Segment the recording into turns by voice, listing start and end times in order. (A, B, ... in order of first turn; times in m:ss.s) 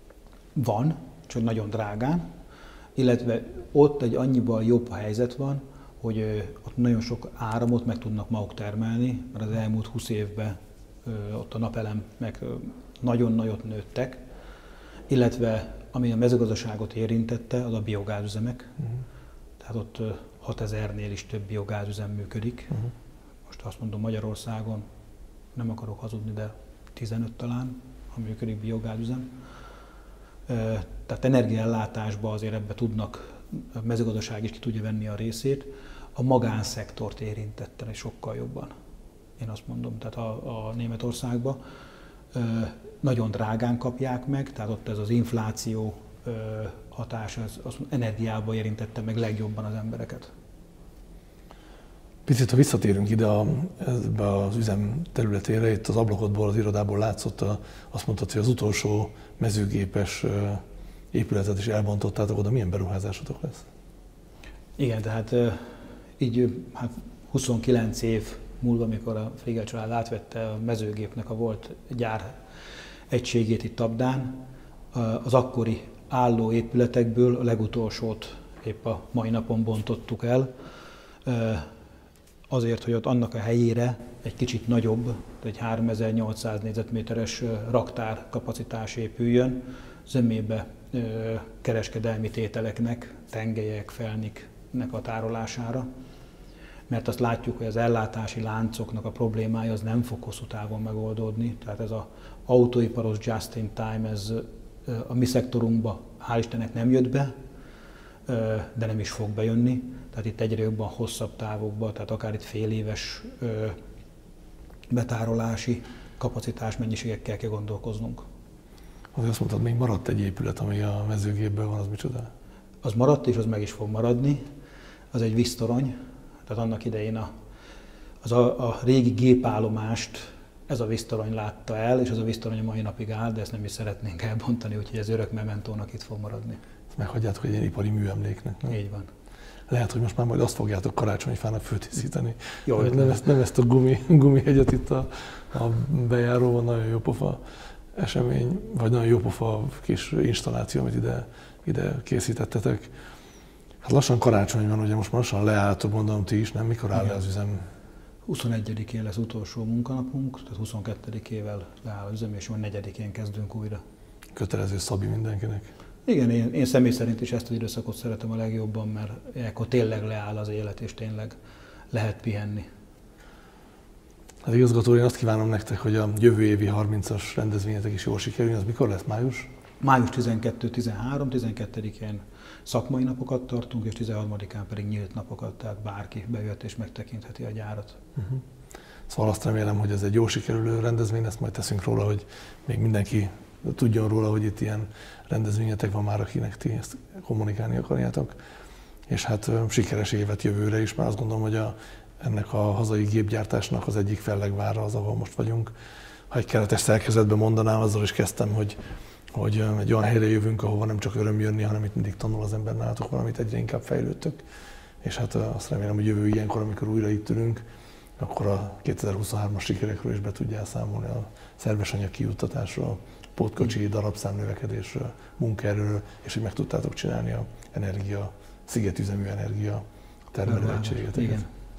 0:00.5-0:02.2 A
0:03.0-0:14.2 A
0:15.1-0:18.7 A
0:19.6-0:22.7 A
0:23.5-0:24.8 A
0:25.5-0:29.3 A
0:30.5-0:38.7 A
0:39.4-0:41.6 A
0:42.3-0:50.3 A
0:52.2-1:03.6 B
1:04.8-1:12.4 A
1:13.1-1:20.5 A
1:21.2-1:21.7 A
1:22.5-1:35.8 A
1:36.9-1:47.3 A
1:48.3-1:53.8 A
1:54.9-1:58.2 A
1:59.1-2:02.3 B
2:02.8-2:04.4 A
2:05.1-2:05.9 A
2:06.5-2:07.3 A
2:08.2-2:16.6 A
2:16.9-2:18.7 B
2:18.7-2:19.1 A
2:19.7-2:27.4 B
2:22.6-2:23.2 A
2:27.9-2:32.9 B
2:33.8-2:37.6 B
2:38.2-2:43.8 A
2:44.3-2:45.7 B
2:46.0-2:51.3 A
2:51.9-2:52.7 A
2:54.4-2:59.5 B
2:59.8-3:08.0 A
3:09.1-3:18.3 B
3:19.1-3:25.7 B
3:26.3-3:28.8 B
3:29.3-3:34.4 B
3:35.0-3:37.6 B
3:38.2-3:51.4 B
3:50.4-3:51.5 A